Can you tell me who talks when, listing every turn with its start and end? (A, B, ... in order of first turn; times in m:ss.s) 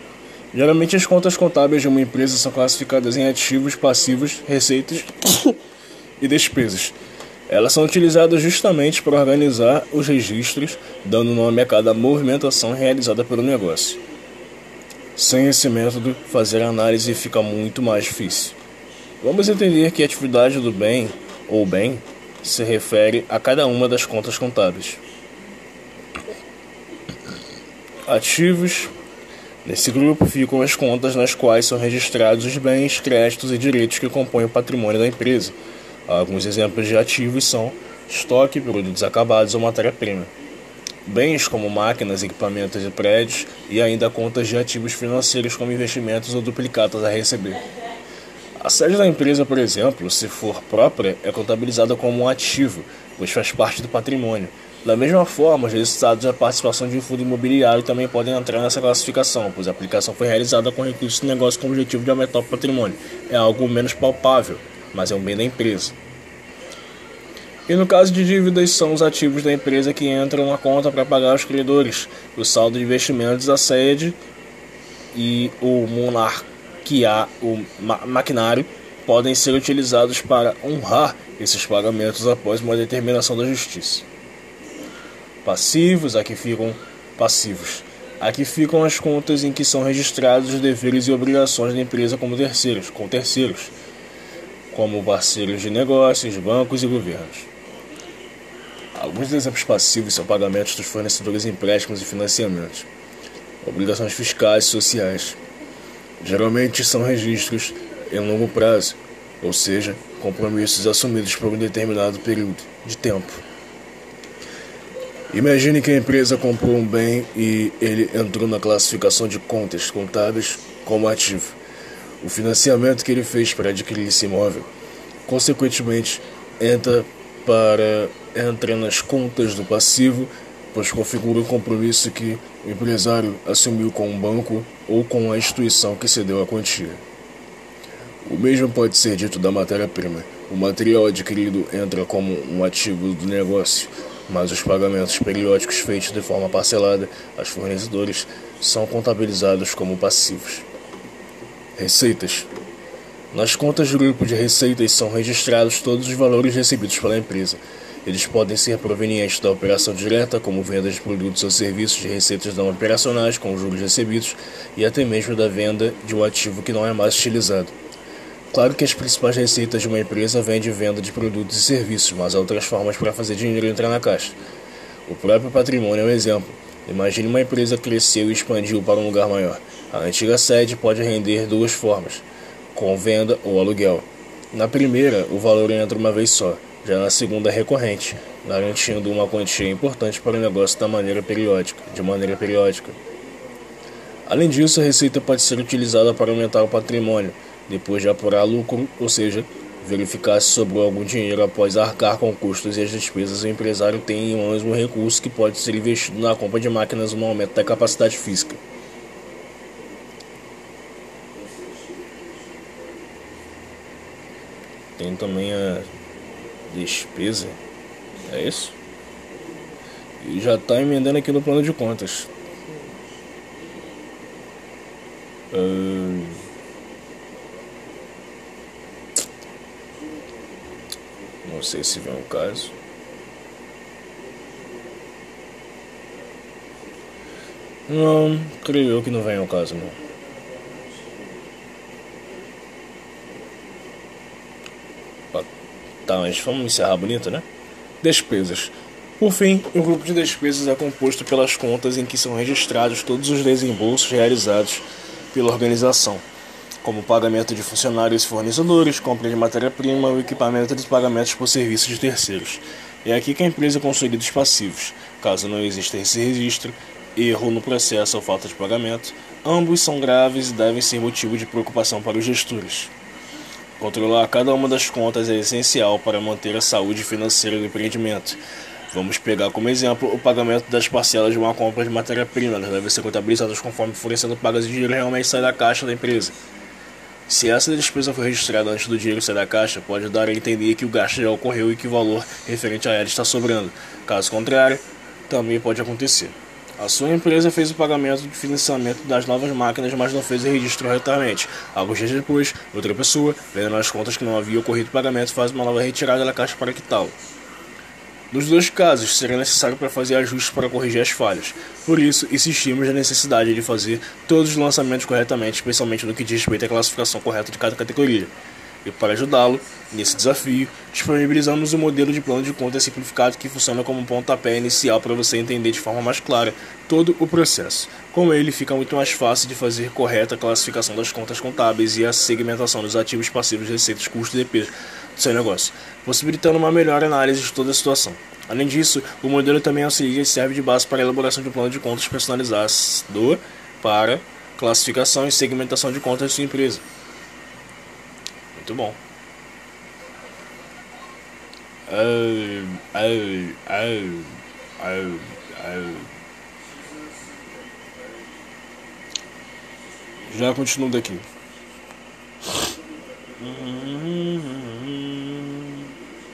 0:00.5-0:05.6 A
0:06.2-0:07.0 A
0:07.5-0:14.0 A
0:15.2-0:18.6 A
0:19.2-0:25.0 A
0:28.0-0:28.9 A
0:29.6-0:40.3 A
0:41.0-0:47.6 A
0:48.6-1:06.0 A
1:07.7-1:14.2 A
1:15.1-1:24.0 A
1:25.4-1:33.7 A
1:34.7-1:37.5 A
1:38.9-1:42.9 A
1:43.6-1:45.4 A
1:46.2-1:53.4 A
1:55.3-2:01.6 A
2:02.2-2:04.7 A
2:05.3-2:17.0 A
2:18.2-2:30.6 A
2:31.8-2:32.5 A
2:33.3-2:47.7 A
2:48.5-2:54.4 A
2:55.0-3:13.0 A
3:14.3-3:28.6 A
3:35.0-3:35.9 A
3:36.7-3:37.6 A
3:38.2-3:38.8 A
3:40.2-3:42.3 A
3:45.5-3:46.4 A
3:51.4-3:52.7 A
3:57.9-4:00.0 A
4:06.0-4:07.4 A
4:08.0-4:16.2 A
4:16.8-4:32.9 A
4:33.8-4:46.4 A
4:47.3-5:07.2 A
5:08.3-5:18.3 A
5:18.8-5:46.8 A
5:48.5-5:49.0 A
5:51.9-5:56.1 A
6:00.3-6:01.2 A
6:03.4-6:05.9 A